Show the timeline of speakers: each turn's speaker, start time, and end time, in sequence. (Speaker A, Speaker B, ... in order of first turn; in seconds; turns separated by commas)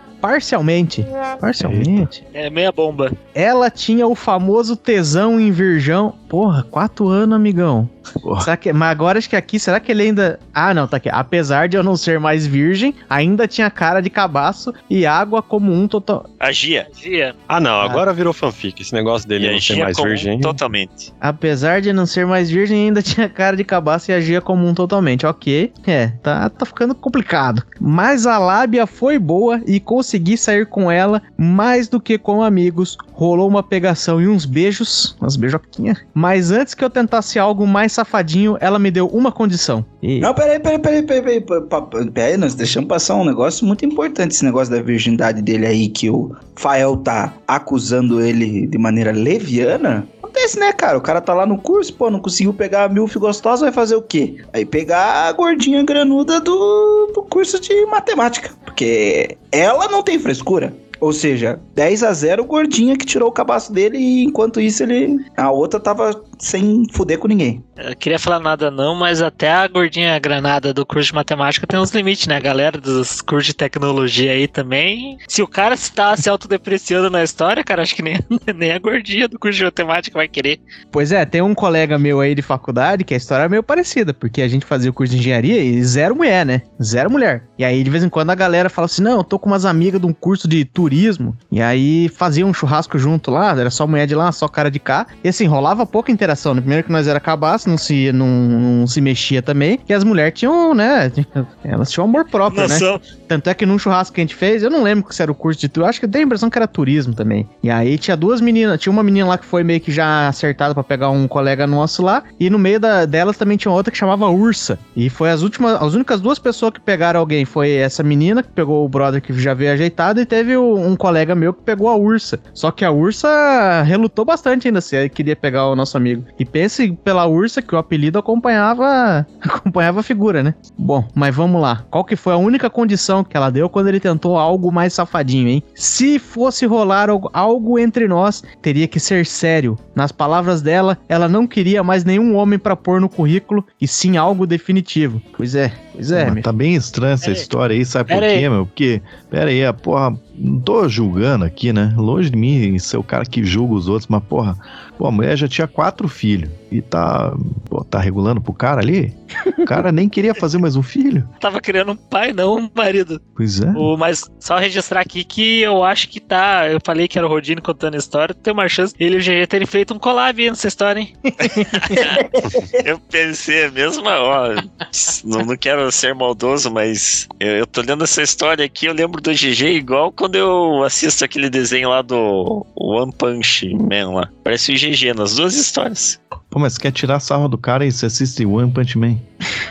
Speaker A: 0.2-2.2, Speaker B: 1.6-2.1, Speaker C: 2.3-3.1, Speaker A: 3.3-16.2, Speaker B: 8.2-8.5, Speaker D: 16.4-16.9, Speaker C: 16.9-17.3, Speaker E: 17.5-20.6, Speaker D: 19.4-21.1, Speaker A: 21.2-40.3, Speaker F: 40.2-67.6, Speaker C: 67.8-80.6, Speaker A: 80.9-146.4, Speaker C: 102.5-103.0, Speaker B: 146.1-161.3, Speaker C: 148.1-148.4, Speaker C: 161.4-163.2, Speaker B: 163.3-163.9, Speaker C: 163.7-171.1, Speaker A: 171.4-171.9, Speaker D: 171.4-172.2, Speaker F: 171.9-172.8, Speaker D: 172.8-186.2, Speaker B: 186.5-189.2